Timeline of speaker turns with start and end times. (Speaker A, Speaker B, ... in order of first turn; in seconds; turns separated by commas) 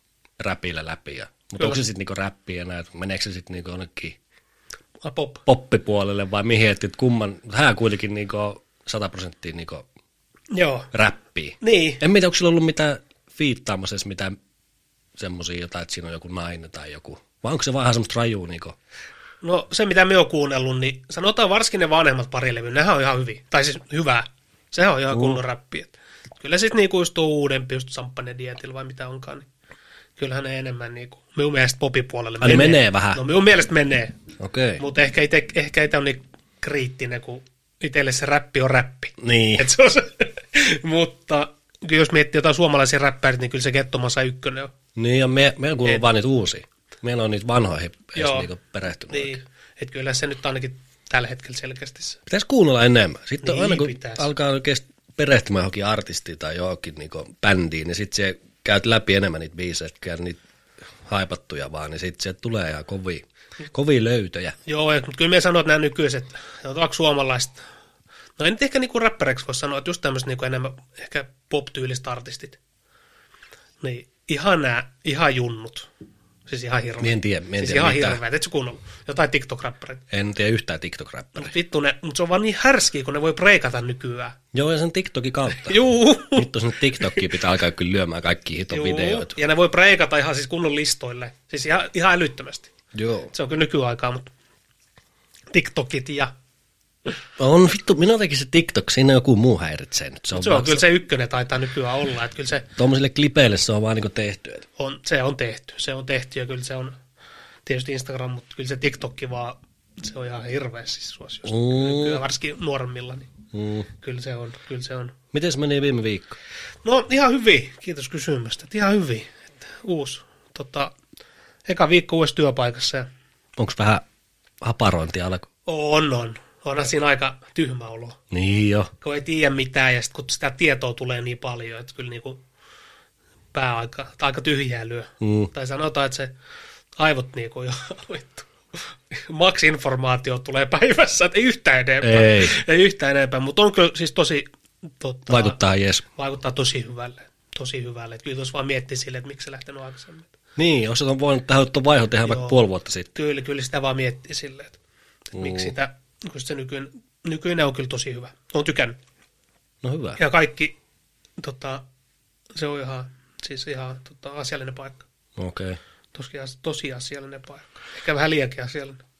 Speaker A: 0.4-4.2, Speaker B: 5.0-5.4, Speaker A: 5.5-9.8, Speaker B: 10.5-10.9, Speaker A: 10.9-14.3, Speaker B: 11.6-12.0, Speaker A: 15.2-18.8, Speaker B: 19.4-29.5, Speaker A: 25.1-25.4, Speaker B: 30.2-34.1, Speaker A: 32.4-33.2, Speaker A: 34.4-34.8, Speaker B: 34.8-44.7, Speaker A: 39.2-39.7, Speaker A: 45.0-49.4, Speaker B: 48.1-48.5, Speaker B: 49.1-52.2, Speaker A: 52.3-60.4, Speaker B: 53.4-54.2, Speaker A: 61.0-64.5, Speaker B: 64.7-67.6, Speaker B: 68.4-72.6, Speaker B: 73.8-75.9, Speaker B: 76.5-80.0, Speaker A: 77.0-78.2, Speaker A: 80.1-81.5, Speaker B: 81.3-84.4, Speaker A: 84.5-85.8, Speaker B: 85.5-86.5, Speaker A: 86.3-89.3, Speaker B: 88.7-92.7, Speaker A: 92.9-93.3, Speaker B: 93.3-94.3, Speaker B: 95.5-96.3, Speaker A: 97.4-100.8, Speaker B: 100.3-102.7, Speaker A: 102.8-104.7, Speaker B: 104.8-107.0, Speaker B: 107.7-113.3, Speaker A: 111.5-112.2, Speaker A: 113.5-113.9, Speaker B: 113.9-115.2, Speaker A: 115.3-116.4, Speaker B: 116.8-120.9, Speaker B: 121.7-123.1, Speaker A: 123.6-124.0, Speaker A: 124.6-125.5, Speaker B: 125.7-128.2, Speaker A: 128.3-128.9, Speaker B: 129.0-132.4, Speaker B: 133.5-136.3, Speaker A: 135.2-135.5, Speaker B: 137.0-144.5, Speaker A: 142.0-142.5, Speaker B: 145.0-145.6, Speaker A: 145.3-146.0, Speaker B: 146.1-150.3, Speaker A: 150.6-153.1, Speaker B: 152.2-152.6, Speaker B: 153.1-154.8, Speaker B: 155.3-159.0, Speaker A: 155.3-155.7, Speaker A: 159.8-160.2, Speaker B: 160.2-160.7, Speaker B: 161.4-161.8, Speaker B: 162.6-165.0, Speaker A: 165.4-165.8, Speaker B: 166.1-169.0